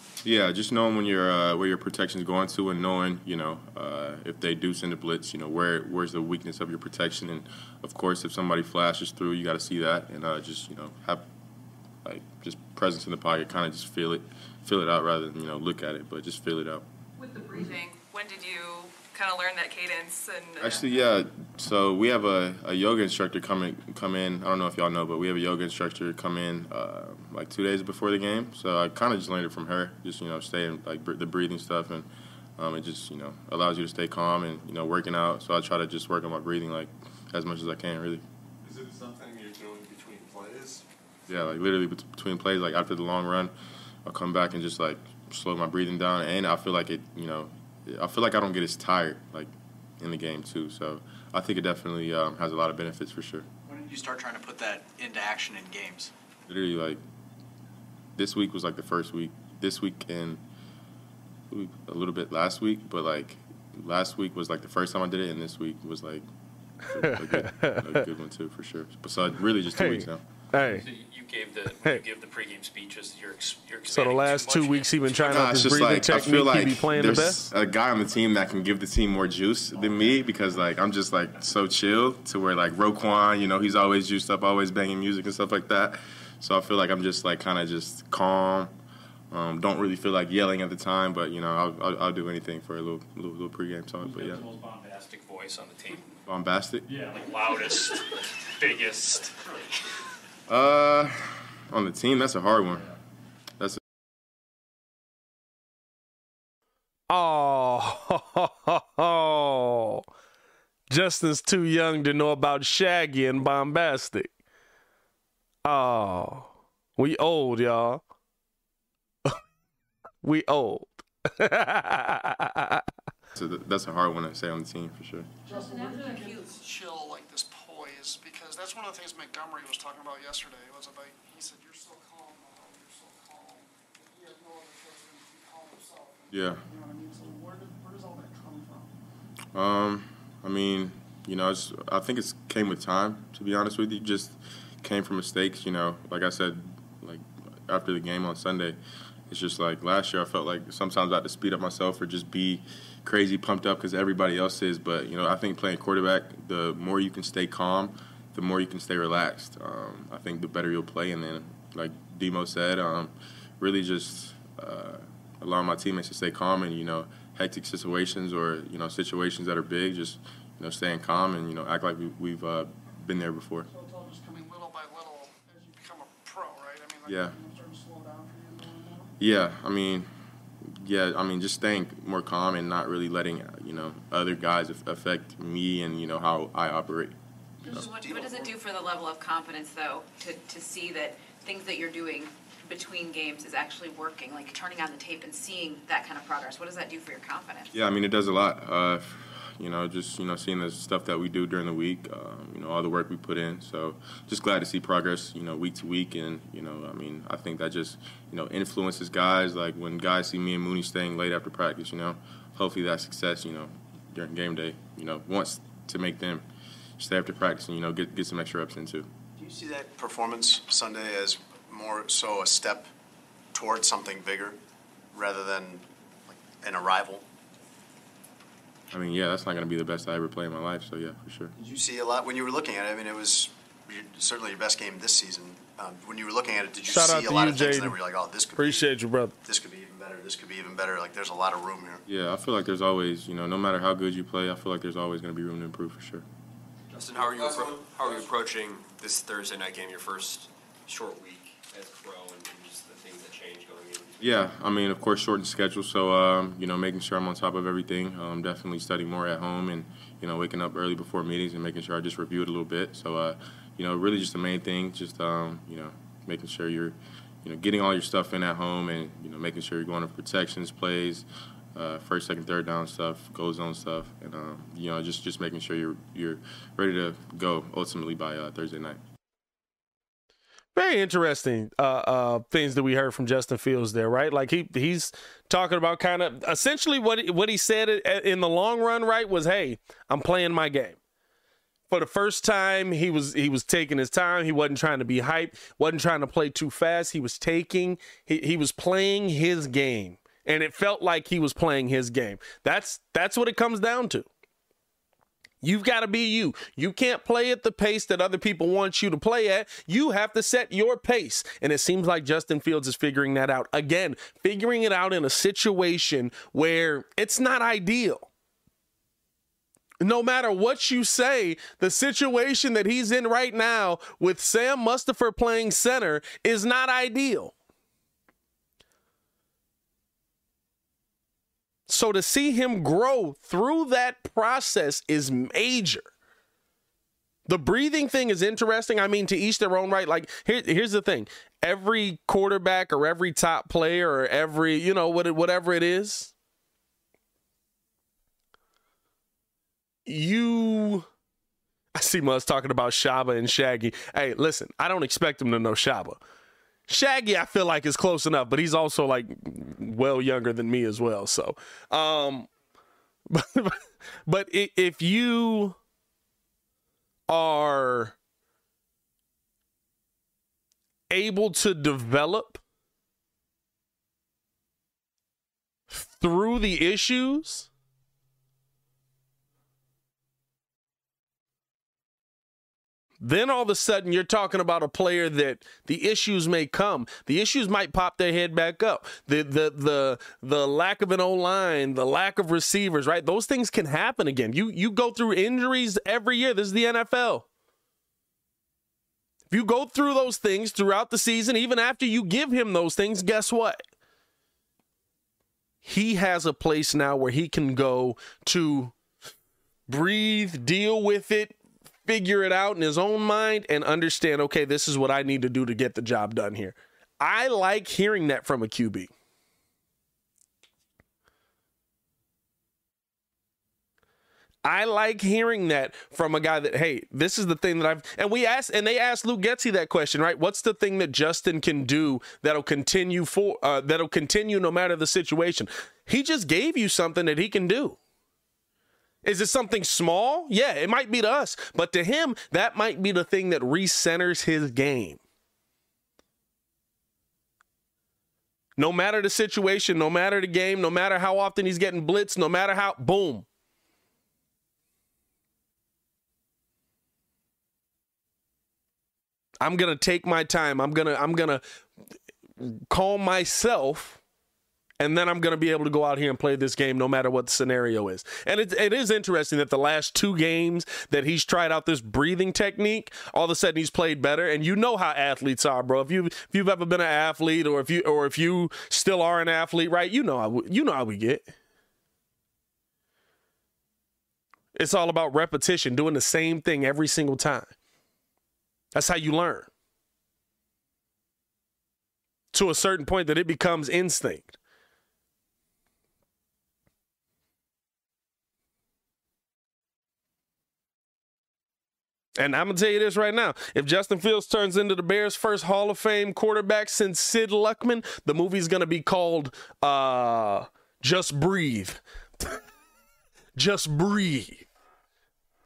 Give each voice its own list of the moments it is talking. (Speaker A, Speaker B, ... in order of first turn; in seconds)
Speaker A: 0.2-11.2, 12.0-16.8, 20.6-38.2, 41.3-43.5, 44.0-53.5, 56.5-57.0, 58.1-60.4, 61.5-66.2, 66.9-70.2, 75.2-88.7, 89.3-94.5, 96.2-96.8, 100.5-102.9, 123.3-125.3, 136.3-136.6, 139.5-173.7, 177.1-177.3, 179.2-180.1, 180.6-187.1, 197.7-216.4, 217.0-219.1, 228.9-231.5, 242.1-246.2, 254.2-279.0
Speaker B: 17.1-20.8, 125.9-126.2
Speaker C: 38.6-40.8, 247.1-248.3
Speaker D: 53.8-56.0
Speaker E: 67.0-67.9, 69.8-70.9, 73.9-77.5, 107.1-110.0, 110.9-114.3, 115.6-118.0, 120.2-122.8, 236.9-237.9, 238.6-239.3, 280.7-291.0, 291.9-304.3, 305.6-318.3, 320.0-327.5, 331.9-336.1, 337.5-346.3, 350.1-351.1, 351.9-356.2, 356.9-362.5, 363.3-365.8, 367.3-368.1, 371.1-372.6, 375.9-377.7, 383.2-397.4, 399.5-403.8, 405.8-408.9, 409.9-419.1, 424.6-438.0, 439.2-445.2, 448.8-453.4, 459.6-461.6, 462.6-464.2, 465.0-481.5, 484.7-487.7, 488.9-489.7, 492.5-494.6, 502.4-512.6, 513.6-514.7
Speaker F: 70.6-75.6, 94.0-96.2, 96.8-99.6
Speaker G: 125.4-138.9, 173.7-179.1
Speaker H: 187.7-197.7
Speaker I: 187.9-188.6, 219.4-222.9, 223.5-224.6, 225.1-227.2, 231.6-238.9, 239.4-242.0
Speaker J: 246.9-254.3